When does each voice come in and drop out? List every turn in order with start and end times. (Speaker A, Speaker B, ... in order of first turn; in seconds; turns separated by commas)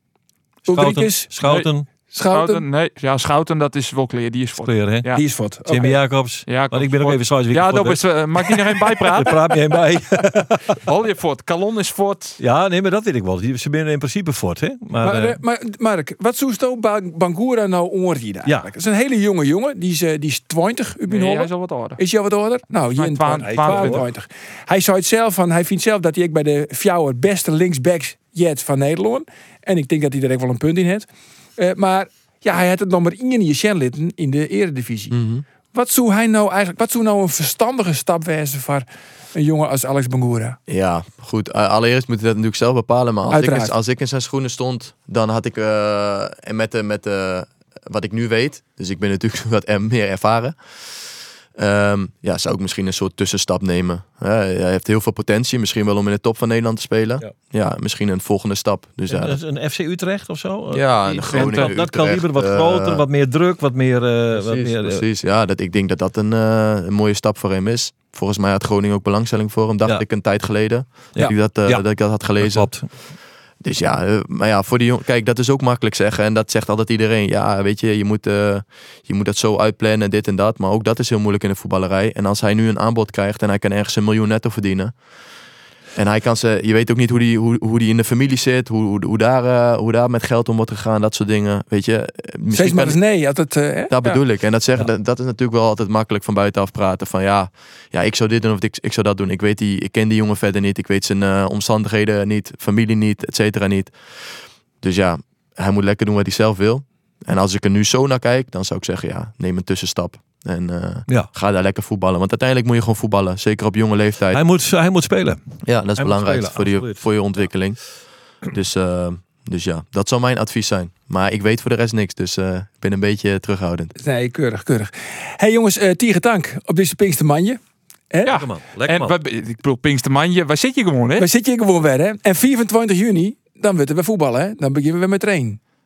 Speaker A: 0.7-1.9, Speaker B: 0.7-1.3, Speaker C: 1.4-5.2, Speaker B: 2.1-2.6, Speaker A: 4.6-5.1, Speaker B: 5.1-6.0, Speaker A: 5.6-10.8, Speaker C: 6.4-9.5, Speaker C: 10.8-12.4, Speaker A: 12.4-15.4, Speaker B: 15.0-35.1, Speaker A: 18.4-18.7, Speaker C: 21.1-22.0, Speaker C: 22.9-24.0, Speaker A: 23.4-24.1, Speaker D: 35.1-35.4, Speaker B: 35.7-40.6, Speaker D: 40.7-50.6, Speaker B: 43.3-43.7, Speaker D: 51.5-59.4, Speaker A: 59.1-65.0, Speaker D: 60.7-63.0, Speaker C: 61.3-61.7, Speaker D: 64.3-72.9, Speaker A: 71.1-73.1, Speaker D: 73.6-85.0, Speaker D: 85.9-93.0, Speaker B: 92.5-94.2, Speaker D: 93.9-114.4, Speaker A: 114.3-117.4, Speaker D: 115.6-123.9, Speaker B: 124.0-127.6, Speaker C: 128.2-131.2, Speaker A: 128.2-129.1, Speaker B: 131.2-135.6